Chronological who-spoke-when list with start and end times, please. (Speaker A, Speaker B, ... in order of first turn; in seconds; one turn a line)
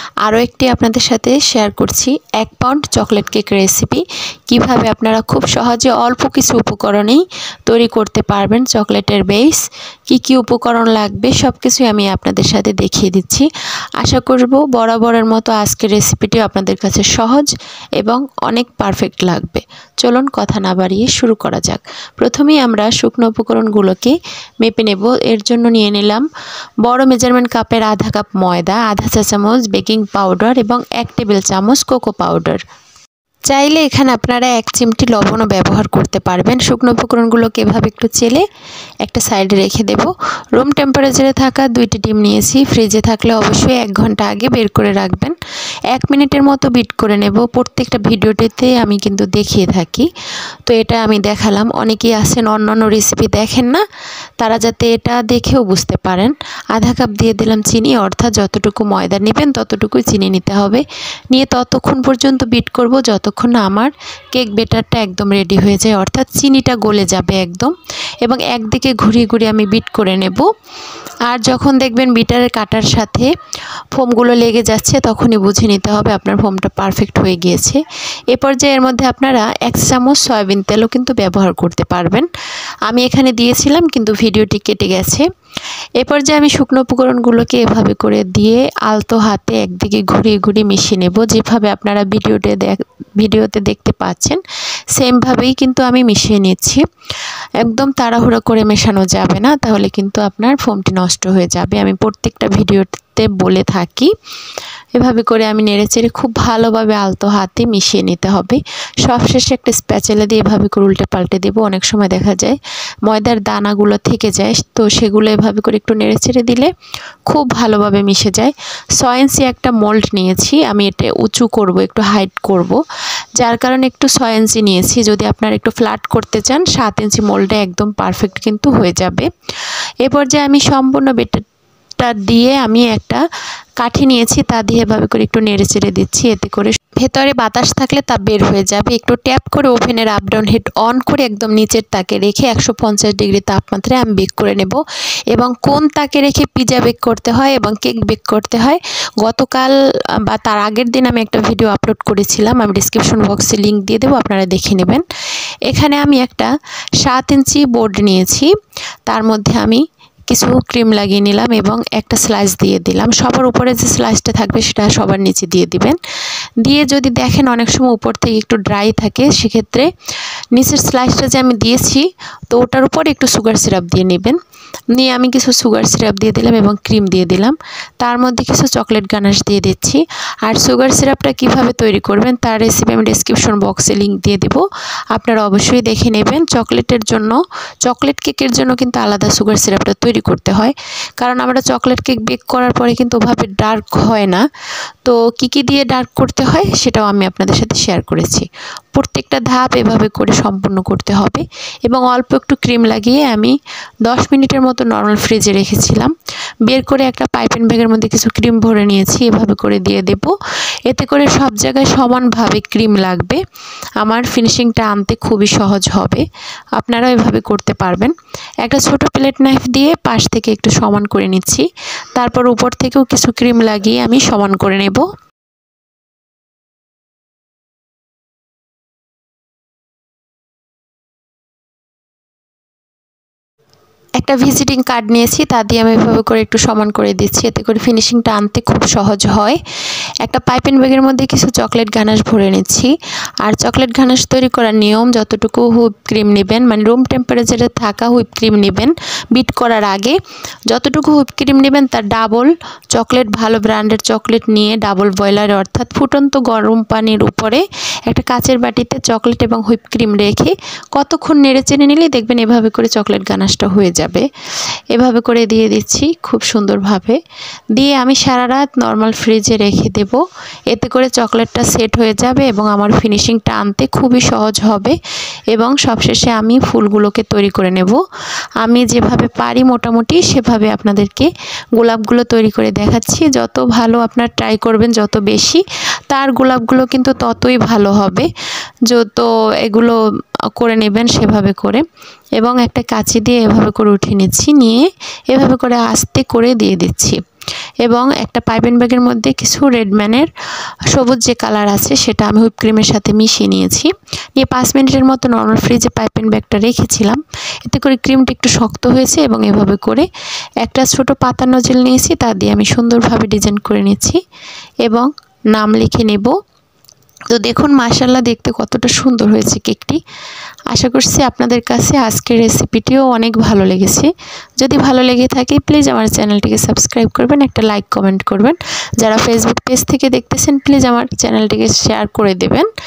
Speaker A: 0.2-13.5
Speaker A: 14.0-26.3
Speaker A: 26.9-32.6
Speaker A: 33.5-38.5
Speaker A: 39.0-45.4
Speaker A: 45.9-50.1
Speaker A: 50.7-53.8
Speaker A: 54.4-67.7
Speaker A: 68.2-70.5
Speaker A: 71.3-73.3
Speaker A: 74.0-77.8
Speaker A: 78.3-82.3
Speaker A: 82.9-85.3
Speaker A: 86.0-94.4
Speaker A: 95.0-96.8
Speaker A: 97.6-104.1
Speaker A: 105.0-116.7
Speaker A: 117.3-122.8
Speaker A: 123.4-129.3
Speaker A: 130.0-131.4
Speaker A: 132.0-133.2
Speaker A: 133.8-144.8
Speaker A: 145.3-155.1
Speaker A: 155.7-156.5
Speaker A: 157.0-158.5
Speaker A: 159.1-166.0
Speaker A: 166.6-169.9
Speaker A: 170.6-174.4
Speaker A: 174.9-194.4
Speaker A: 195.1-206.1
Speaker A: 206.7-210.3
Speaker A: 210.9-213.4
Speaker A: 214.0-225.1
Speaker A: 234.2-239.6
Speaker A: 240.2-242.9
Speaker A: 243.4-264.3
Speaker A: 264.9-267.2
Speaker A: 267.8-275.0
Speaker A: 275.5-278.0
Speaker A: 278.6-288.3
Speaker A: 288.9-290.0
Speaker A: 290.6-291.8
Speaker A: 292.4-297.2
Speaker A: 297.9-300.3
Speaker A: 300.9-310.1
Speaker A: 310.6-314.2
Speaker A: 314.9-316.4
Speaker A: 317.3-320.0
Speaker A: 320.7-332.7